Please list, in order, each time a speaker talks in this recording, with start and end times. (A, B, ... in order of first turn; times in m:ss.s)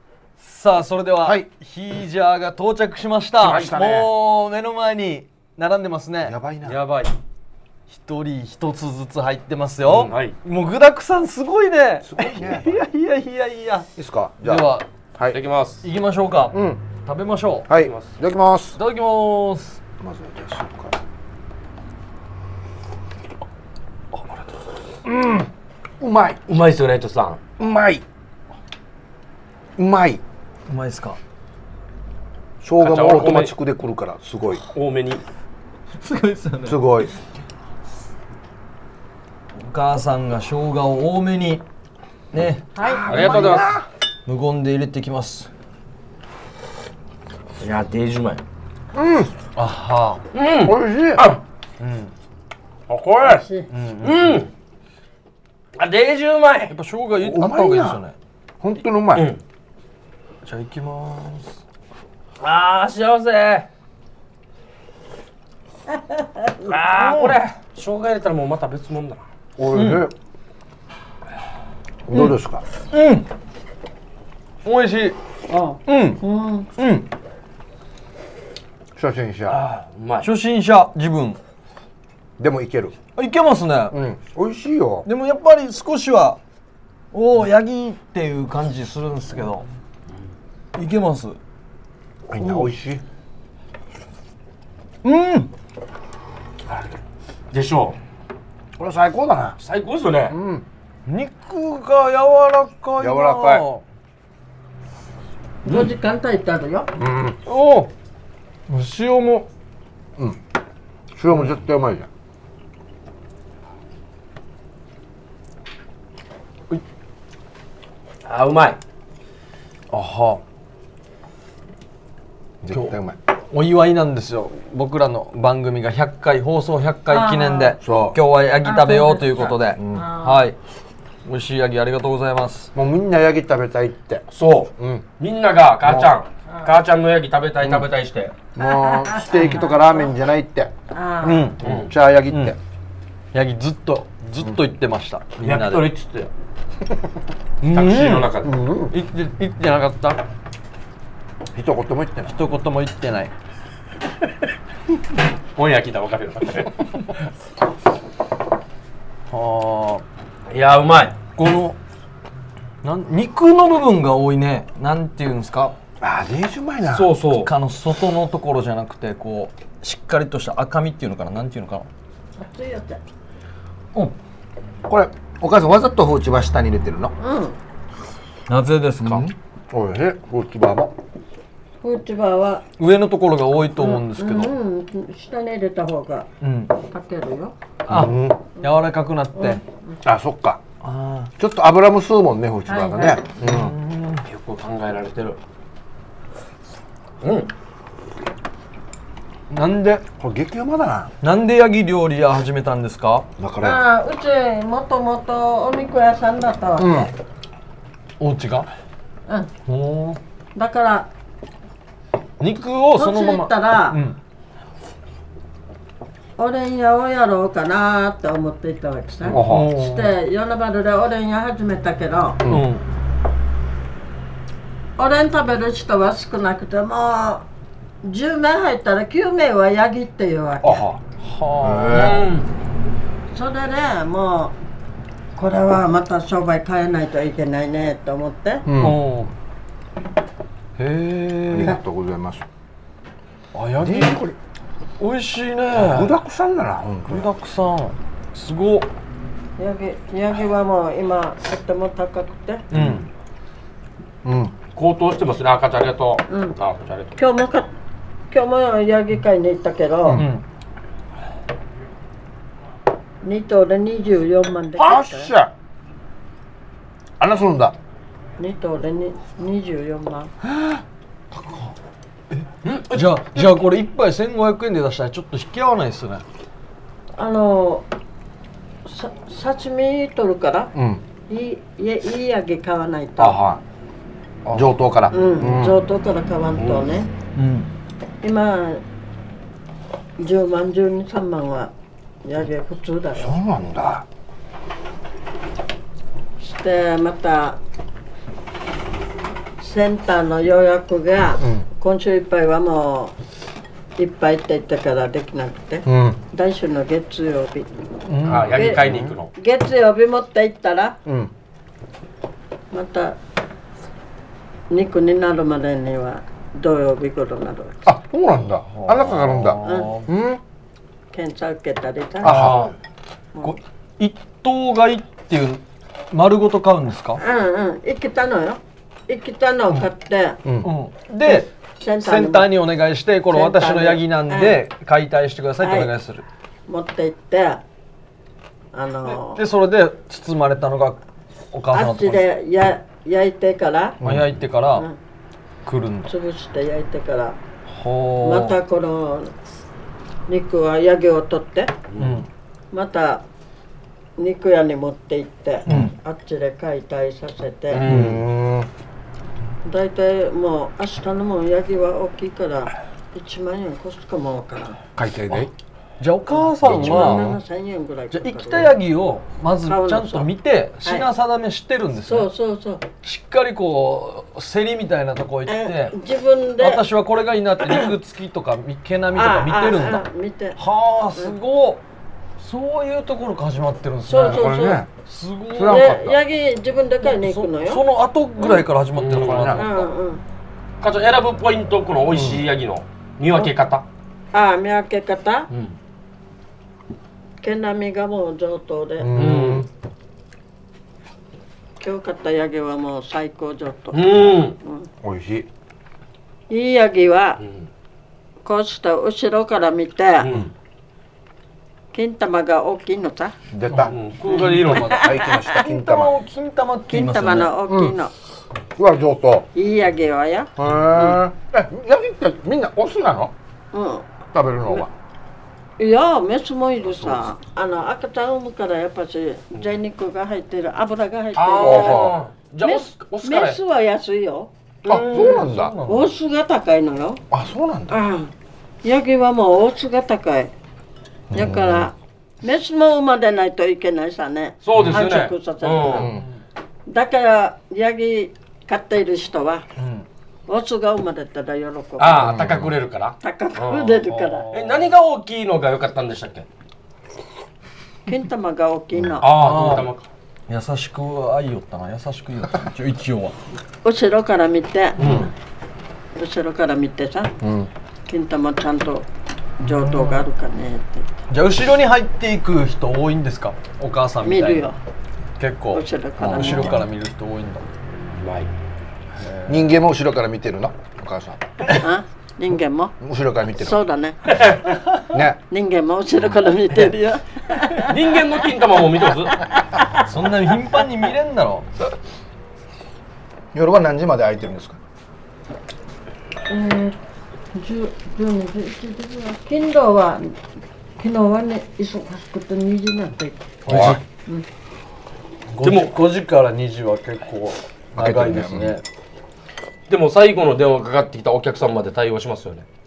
0:00.4-0:06.4 A
0:01.2-0:01.5 B
0:03.4-0:04.1 B
0:03.4-0:03.7 C
0:06.2-0:06.8 B
0:06.6-0:07.1 C
0:07.9-0:13.9 A
0:09.8-0:10.4 C
0:12.0-0:12.8 B
0:14.0-0:15.4 B
0:14.4-0:14.9 A
0:15.3-0:15.8 C
0:15.8-0:17.7 A
0:16.5-0:16.8 B
0:17.7-0:18.8 B
0:17.7-0:18.1 C
0:18.8-0:19.8 A
0:20.0-0:20.9 B
0:25.0-0:25.5 B
0:26.0-0:26.4 B
0:26.5-0:27.4 C
0:27.6-0:28.0 B
0:29.8-0:30.2 B
0:30.7-0:31.2 A
0:32.6-0:34.6 B
0:32.8-0:33.5 C
0:34.7-0:35.2 C
0:36.0-0:36.8 A
0:36.6-0:37.1 B
0:39.5-0:41.6 A
0:42.3-0:42.6 A
0:42.8-0:43.6 D
0:42.8-0:43.8 B
0:43.1-0:43.8 C
0:44.2-0:45.5 A
0:47.6-0:48.4 C
0:48.9-0:49.3 B
0:49.5-0:50.2 A
0:50.3-0:51.4 C
0:50.6-0:51.2 B
0:51.8-0:52.1 A
0:52.9-0:53.4 C
0:53.2-0:53.7 D
0:53.7-0:54.3 A
0:54.0-0:54.5 C
0:55.8-0:56.7 C
0:56.7-0:58.1 A
0:57.2-0:58.0 B
0:58.6-0:59.3 B
0:59.1-0:59.4 C
1:00.4-1:01.6 A
1:02.4-1:03.7 C
1:06.0-1:06.6 D
1:06.6-1:09.2 C
1:06.9-1:07.4 A
1:09.6-1:10.1 B
1:09.7-1:10.1 A
1:12.1-1:12.6 B
1:12.9-1:13.3 A
1:14.6-1:15.2 A
1:15.5-1:16.7 D
1:15.8-1:16.2 A
1:16.8-1:17.1 A
1:19.0-1:19.6 B
1:19.5-1:20.3 C
1:20.2-1:21.4 A
1:22.4-1:23.0 B
1:23.2-1:24.0 A
1:23.9-1:25.0 B
1:25.0-1:26.4 A
1:27.1-1:29.7 A
1:30.8-1:31.4 A
1:32.3-1:33.0 B
1:32.4-1:32.7 A
1:35.0-1:35.5 A
1:36.7-1:37.0 C
1:37.5-1:38.0 C
1:38.8-1:39.6 B
1:39.6-1:40.4 C
1:40.3-1:40.6 B
1:41.0-1:43.8 A
1:43.0-1:43.6 B
1:45.6-1:46.9 D
1:47.0-1:47.4 B
1:47.4-1:47.9 A
1:48.7-1:49.5 A
1:51.1-1:52.1 B
1:58.2-1:58.8 C
1:59.9-2:00.4 A
2:02.6-2:03.2 B
2:02.7-2:03.0 A
2:03.5-2:10.6 A
2:07.1-2:07.8 D
2:07.8-2:08.2 B
2:08.6-2:10.4 D
2:09.4-2:10.1 B
2:11.2-2:12.7 A
2:12.7-2:14.2 B
2:14.3-2:18.3 C
2:14.8-2:15.0 B
2:15.8-2:16.1 B
2:17.6-2:17.9 B
2:18.5-2:20.7 B
2:18.6-2:20.1 D
2:20.9-2:21.5 D
2:21.2-2:21.6 A
2:21.6-2:21.9 C
2:21.6-2:22.6 B
2:22.3-2:22.5 A
2:23.3-2:25.9 A
2:25.4-2:26.3 C
2:27.6-2:28.3 A
2:27.6-2:28.5 C
2:28.4-2:28.9 B
2:28.9-2:30.2 A
2:31.5-2:32.3 B
2:32.3-2:33.3 A
2:35.6-2:36.9 C
2:39.3-2:40.0 A
2:40.5-2:41.1 C
2:41.3-2:41.8 A
2:42.8-2:45.8 A
2:46.0-2:47.1 B
2:46.8-2:47.5 C
2:47.3-2:51.9 A
2:52.4-2:53.0 D
2:54.9-2:57.1 B
2:57.2-2:57.6 D
2:58.5-2:59.3 A
2:59.0-3:00.9 B
3:01.8-3:02.6 D
3:02.8-3:04.5 A
3:03.8-3:06.3 D
3:06.4-3:06.7 A
3:06.9-3:07.5 D
3:07.8-3:09.6 A
3:07.9-3:08.4 B
3:09.4-3:10.0 D
3:10.0-3:10.6 B
3:10.8-3:11.3 A
3:11.4-3:13.7 B
3:12.7-3:13.2 D
3:13.4-3:14.2 A
3:14.2-3:15.4 C
3:17.2-3:17.5 C
3:19.5-3:20.0 A
3:20.2-3:21.1 B
3:21.2-3:23.3 A
3:23.4-3:23.8 B
3:23.6-3:27.1 D
3:26.8-3:27.1 B
3:28.2-3:28.7 A
3:29.6-3:30.2 A
3:30.5-3:31.1 D
3:32.4-3:34.2 A
3:33.0-3:34.0 D
3:36.4-3:42.4 D
3:39.2-3:39.7 B
3:39.4-3:40.1 A
3:42.4-3:42.6 B
3:42.5-3:42.8 A
3:45.0-3:47.4 D
3:48.0-3:50.8 D
3:50.6-3:51.0 B
3:51.2-3:52.1 A
3:51.6-3:52.3 B
3:51.9-3:52.4 C
3:53.3-3:54.6 D
3:55.3-3:58.6 D
3:58.6-3:59.0 B
3:58.8-3:59.3 A
4:00.8-4:01.8 A
4:01.5-4:02.4 B
4:03.5-4:04.2 A
4:03.8-4:04.4 B
4:05.0-4:06.2 A
4:05.7-4:07.3 B
4:07.1-4:08.9 A
4:09.6-4:12.6 D
4:12.7-4:13.0 B
4:12.7-4:13.0 A
4:14.2-4:14.5 B
4:14.8-4:17.1 C
4:16.3-4:16.5 D
4:17.2-4:17.7 D
4:18.3-4:20.2 D
4:20.1-4:20.4 A
4:23.2-4:25.3 D
4:24.8-4:25.5 B
4:27.2-4:27.7 B
4:28.4-4:30.3 D
4:30.4-4:30.8 B
4:31.3-4:31.7 A
4:32.3-4:36.2 A
4:32.6-4:33.5 C
4:37.2-4:37.8 D
4:38.8-4:40.7 D
4:40.7-4:41.0 B
4:41.3-4:43.4 D
4:43.2-4:43.6 B
4:44.5-4:45.8 B
4:45.1-4:47.1 D
4:46.6-4:46.9 C
4:47.3-4:47.7 A
4:48.2-4:48.8 D
4:50.2-4:51.7 D
4:52.2-4:53.3 D
4:53.2-4:54.0 B
4:56.4-4:57.6 D
4:59.6-5:03.1 D
5:01.4-5:01.6 B
5:04.0-5:07.7 D
5:05.8-5:06.2 B
5:08.0-5:08.6 A
5:08.2-5:09.1 B
5:08.2-5:09.3 C
5:08.5-5:11.0 D
5:11.0-5:11.3 B
5:12.7-5:13.2 D
5:14.7-5:17.8 D
5:17.8-5:20.4 B
5:18.7-5:20.1 A
5:19.6-5:19.9 D
5:21.1-5:22.5 D
5:22.2-5:22.7 B
5:22.3-5:22.7 C
5:22.4-5:22.6 A
5:23.4-5:27.2 A
5:27.2-5:30.4 D
5:30.4-5:30.7 B
5:30.6-5:36.2 A
5:31.2-5:32.6 D
5:33.3-5:34.6 D
5:35.6-5:35.9 D
5:36.7-5:37.6 D
5:38.7-5:39.4 D
5:39.1-5:41.0 A
5:41.5-5:42.2 A
5:41.7-5:44.0 D
5:44.0-5:44.4 B
5:44.0-5:44.9 A
5:45.6-5:46.1 A
5:46.1-5:47.4 D
5:47.7-5:48.6 A
5:48.2-5:49.3 D
5:50.3-5:51.7 D
5:51.9-5:52.2 C
5:52.0-5:52.3 A
5:52.7-5:53.2 D
5:54.2-5:57.8 D
5:55.7-5:55.9 A
5:57.7-5:58.2 C
5:57.8-5:58.2 A
5:57.8-5:58.7 B
5:59.6-6:04.8 D
6:04.9-6:05.5 B
6:06.0-6:07.3 A
6:06.4-6:08.8 D
6:06.6-6:07.4 B
6:08.1-6:12.3 A
6:09.6-6:10.3 D
6:10.8-6:11.1 D
6:12.0-6:12.9 D
6:13.0-6:15.9 A
6:15.5-6:16.8 D
6:16.6-6:20.0 A
6:17.6-6:17.9 D
6:19.1-6:20.6 D
6:20.6-6:21.8 A
6:22.4-6:24.5 A
6:24.0-6:24.8 D
6:24.2-6:24.9 B
6:25.0-6:26.0 A
6:25.5-6:26.2 B
6:25.6-6:27.8 D
6:27.0-6:29.7 A
6:28.4-6:28.6 D
6:29.0-6:29.7 C
6:29.1-6:29.7 B
6:29.5-6:30.2 D
6:30.8-6:33.8 C
6:32.1-6:32.4 B
6:34.3-6:35.5 D
6:37.4-6:39.1 D
6:39.0-6:39.7 B
6:39.2-6:39.7 C
6:41.8-6:44.9 D
6:43.9-6:44.6 C
6:45.0-6:45.5 B
6:46.5-6:47.4 D
6:47.4-6:47.6 C
6:48.4-6:50.3 D
6:50.2-6:50.5 C
6:51.9-6:53.4 D
6:53.5-6:54.0 B
6:53.7-6:57.5 A
6:53.9-6:55.0 C
6:54.3-6:55.6 D
6:54.7-6:56.1 B
6:56.9-6:58.1 D
6:57.7-6:57.9 B
6:58.8-6:59.5 B
6:59.5-7:01.2 D
7:00.6-7:03.3 B
7:03.7-7:04.1 D
7:04.3-7:04.9 B
7:05.8-7:14.5 D
7:11.3-7:13.6 C
7:11.6-7:12.2 B
7:14.9-7:15.8 B
7:14.9-7:16.1 A
7:15.8-7:17.2 D
7:17.3-7:18.0 B
7:17.9-7:18.3 D
7:18.8-7:20.5 D
7:21.3-7:21.9 B
7:21.3-7:26.1 D
7:24.6-7:26.1 C
7:25.9-7:26.2 B
7:26.1-7:26.4 A
7:26.9-7:29.6 D
7:29.8-7:30.0 A
7:30.5-7:32.3 D
7:32.0-7:34.0 C
7:32.1-7:32.8 B
7:33.2-7:34.5 D
7:34.0-7:34.9 A
7:34.5-7:36.4 C
7:38.1-7:39.3 D
7:39.2-7:40.1 C
7:39.3-7:39.9 A
7:40.5-7:43.3 A
7:43.8-7:45.3 D
7:45.0-7:45.3 C
7:46.2-7:47.3 D
7:47.4-7:47.7 B
7:48.1-7:49.1 D
7:49.6-7:51.1 D
7:49.6-7:50.2 A
7:51.3-7:54.7 A
7:54.2-7:54.8 D
7:55.4-7:57.7 A
7:55.7-7:56.8 D
7:58.1-7:58.5 C
7:59.2-7:59.7 A
7:59.5-8:01.7 B
8:01.8-8:02.9 D
8:03.0-8:03.8 B
8:03.6-8:04.2 D
8:04.3-8:04.6 C
8:05.1-8:05.4 B
8:05.5-8:08.0 D
8:07.8-8:09.4 C
8:10.0-8:11.7 A
8:13.5-8:14.8 B
8:16.5-8:17.0 D
8:17.5-8:20.4 D
8:21.0-8:23.6 D
8:23.6-8:24.0 B
8:23.6-8:24.0 A
8:25.5-8:28.8 A
8:25.6-8:25.9 C
8:27.9-8:28.8 B
8:29.9-8:32.6 C